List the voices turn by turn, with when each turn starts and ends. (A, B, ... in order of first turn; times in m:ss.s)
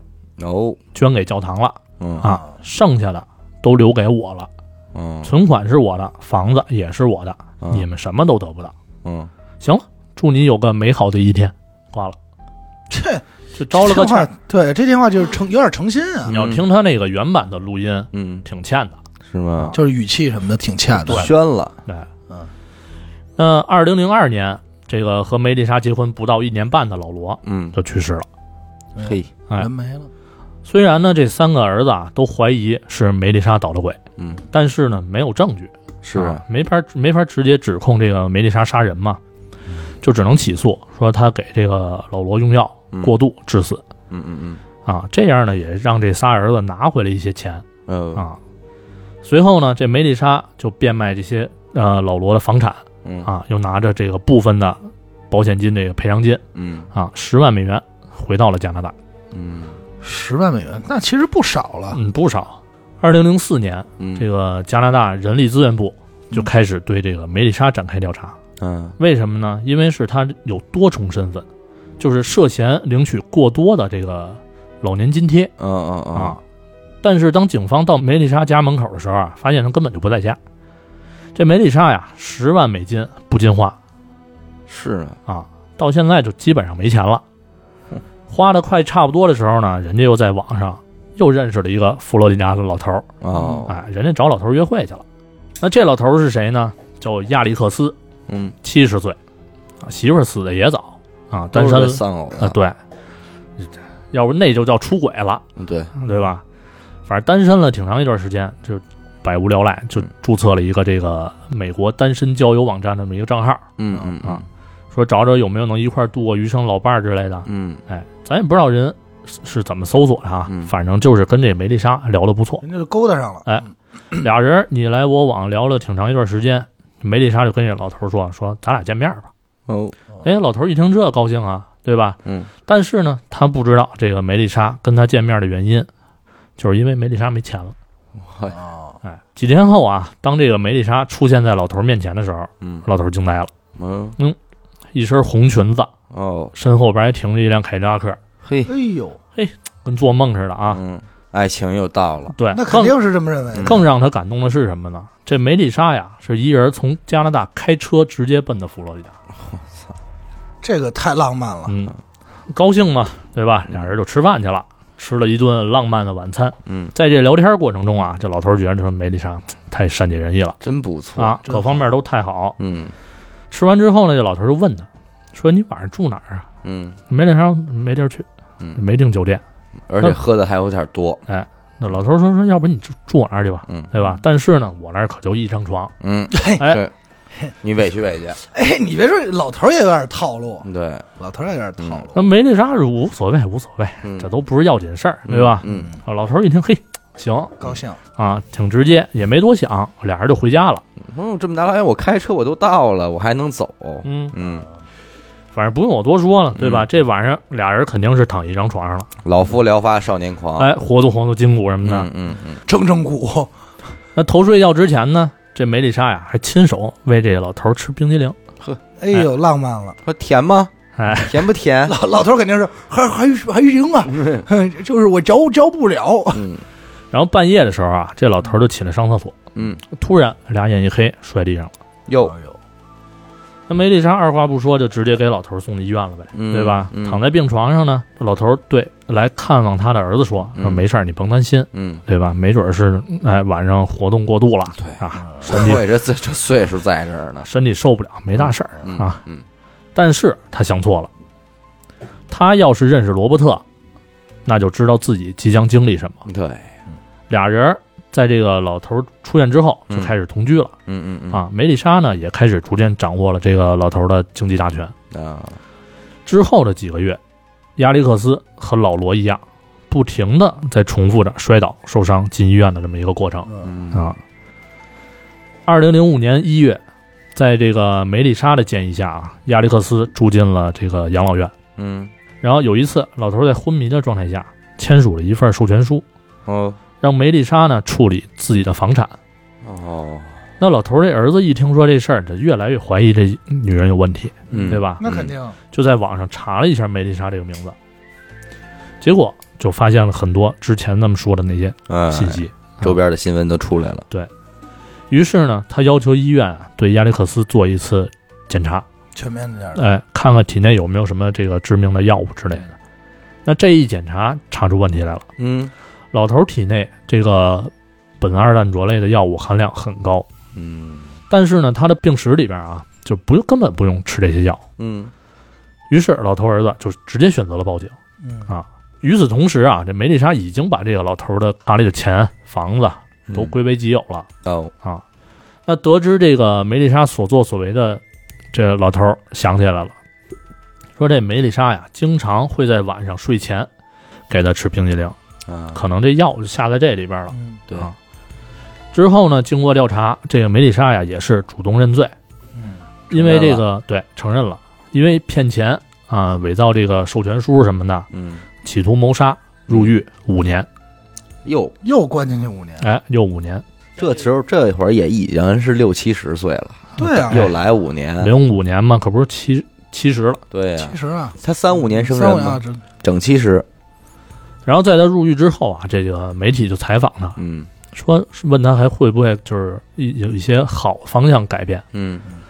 0:00.4-0:00.8 A
0:00.9-0:04.5 B
0:02.0-0:02.3 A
0:04.9-0:05.3 A
0:05.2-0:08.7 B
0:07.6-0:07.8 A
0:09.0-0:09.3 A
0:09.6-0:12.2 B
0:12.9-0:16.3 C
0:13.6-0:14.3 B
0:16.3-0:16.6 A
0:16.3-0:19.0 B
0:18.1-0:18.4 A
0:19.3-0:19.8 A
0:19.7-0:21.3 C
0:20.9-0:21.8 A
0:23.4-0:28.3 B
0:27.4-0:27.8 A
0:29.0-0:30.1 C
0:29.0-0:29.3 A
0:30.6-0:34.0 B
0:34.2-0:34.4 A
0:34.5-0:39.2 B
0:36.0-0:36.4 A
0:40.0-0:43.8 B
0:44.1-0:44.6 A
0:44.8-0:48.4 B
0:47.9-0:48.2 A
0:49.2-0:58.9 B
0:53.0-0:53.3 A
0:56.5-0:56.9 A
0:59.3-0:59.8 A
1:00.0-1:02.0 C
1:01.9-1:08.4 B
1:04.0-1:04.2 A
1:08.6-1:09.0 A
1:09.0-1:11.4 B
1:12.0-1:15.5 B
1:15.6-1:16.4 A
1:16.1-1:16.4 B
1:17.0-1:20.4 B
1:21.3-1:23.8 B
1:24.7-1:25.2 A
1:25.3-1:27.2 B
1:28.3-1:33.1 B
1:33.2-1:33.7 A
1:33.6-1:35.0 B
1:35.6-1:38.0 B
1:38.3-1:38.5 A
1:38.6-1:39.2 B
1:39.8-1:42.8 B
1:41.5-1:42.6 A
1:44.1-1:46.4 B
1:45.6-1:45.9 A
1:47.1-1:53.7 B
1:53.8-1:54.4 A
1:54.2-2:02.6 B
1:57.4-1:57.8 A
2:00.5-2:00.7 A
2:02.6-2:03.6 C
2:03.4-2:09.3 B
2:09.7-2:10.0 A
2:10.2-2:15.9 B
2:16.6-2:17.7 B
2:18.2-2:18.6 A
2:18.5-2:19.0 C
2:19.0-2:23.5 B
2:22.6-2:22.8 A
2:23.7-2:24.2 A
2:24.9-2:25.9 B
2:26.1-2:26.5 A
2:26.5-2:28.2 B
2:28.4-2:28.7 A
2:28.6-2:29.2 C
2:29.3-2:30.8 B
2:30.7-2:32.3 A
2:32.3-2:32.9 B
2:32.5-2:33.8 C
2:33.5-2:33.8 A
2:33.6-2:39.1 B
2:39.4-2:39.8 A
2:40.6-2:41.8 C
2:41.7-2:41.9 B
2:42.5-2:50.6 B
2:46.6-2:46.9 A
2:50.6-2:51.4 A
2:51.2-2:52.6 B
2:51.4-2:51.8 C
2:52.6-2:52.9 A
2:53.5-2:56.4 B
2:56.6-2:57.0 A
2:57.1-2:59.4 B
2:59.9-3:01.2 A
3:01.3-3:05.9 B
3:06.0-3:06.9 A
3:06.3-3:06.7 C
3:07.6-3:08.4 A
3:08.4-3:10.7 C
3:10.6-3:11.0 A
3:11.2-3:12.2 C
3:11.8-3:12.1 A
3:12.1-3:17.6 B
3:14.0-3:14.3 A
3:15.2-3:15.9 A
3:15.6-3:15.9 C
3:17.6-3:18.0 C
3:18.2-3:20.8 B
3:21.0-3:24.7 A
3:24.0-3:24.3 B
3:25.5-3:29.1 B
3:26.6-3:26.8 A
3:29.2-3:30.7 A
3:30.6-3:32.1 B
3:31.8-3:32.6 A
3:32.6-3:33.5 C
3:34.2-3:38.4 B
3:39.0-3:40.0 C
3:40.0-3:42.0 A
3:41.0-3:41.4 B
3:41.8-3:46.4 C
3:44.1-3:44.4 A
3:46.3-3:46.6 A
3:47.1-3:49.4 B
3:49.5-3:49.8 A
3:49.9-3:51.7 B
3:52.1-3:52.3 A
3:52.2-3:52.6 C
3:53.7-4:05.8 B
3:56.3-3:57.2 A
4:00.5-4:00.8 A
4:01.7-4:02.0 A
4:04.8-4:07.5 A
4:07.4-4:09.2 B
4:08.4-4:09.4 A
4:09.9-4:11.1 B
4:12.3-4:13.6 B
4:14.4-4:16.2 B
4:16.2-4:16.7 A
4:17.3-4:20.7 B
4:20.8-4:21.4 A
4:21.3-4:24.9 B
4:25.1-4:25.6 A
4:26.2-4:27.2 B
4:27.8-4:34.2 B
4:33.6-4:34.1 A
4:35.6-4:36.8 B
4:37.3-4:41.5 B
4:41.8-4:42.1 A
4:42.4-4:46.0 B
4:46.4-4:46.8 A
4:47.0-4:49.1 B
4:49.6-4:50.4 A
4:50.6-4:55.0 B
4:54.5-4:55.3 A
4:54.5-4:55.6 C
4:55.7-4:57.8 B
4:59.0-5:03.0 B
5:01.9-5:04.0 A
5:05.1-5:08.8 B
5:09.1-5:09.8 C
5:09.7-5:12.7 B
5:13.4-5:15.3 B
5:15.4-5:15.7 A
5:16.1-5:20.3 B
5:20.5-5:21.1 A
5:21.3-5:24.6 B
5:24.8-5:25.1 A
5:25.9-5:28.0 B
5:28.2-5:28.5 C
5:28.5-5:34.3 B
5:33.3-5:33.5 A
5:34.4-5:34.7 A
5:35.6-5:38.0 B
5:38.5-5:39.9 B
5:41.0-5:43.7 B
5:44.3-5:45.2 B
5:45.5-5:45.8 A
5:45.7-5:48.0 B
5:47.3-5:47.6 C
5:48.9-5:52.1 B
5:52.6-5:52.8 C
5:53.1-5:58.1 B
5:53.1-5:53.6 A
5:58.1-5:58.4 A
5:58.6-6:00.7 B
6:01.4-6:01.7 A
6:01.8-6:02.8 C
6:02.8-6:03.6 B
6:04.0-6:08.3 A
6:07.0-6:07.5 B
6:07.0-6:07.5 C
6:08.2-6:10.4 B
6:10.5-6:13.6 A
6:10.8-6:12.8 C
6:14.6-6:17.4 B
6:17.4-6:17.7 A
6:17.9-6:21.8 B
6:21.9-6:22.2 A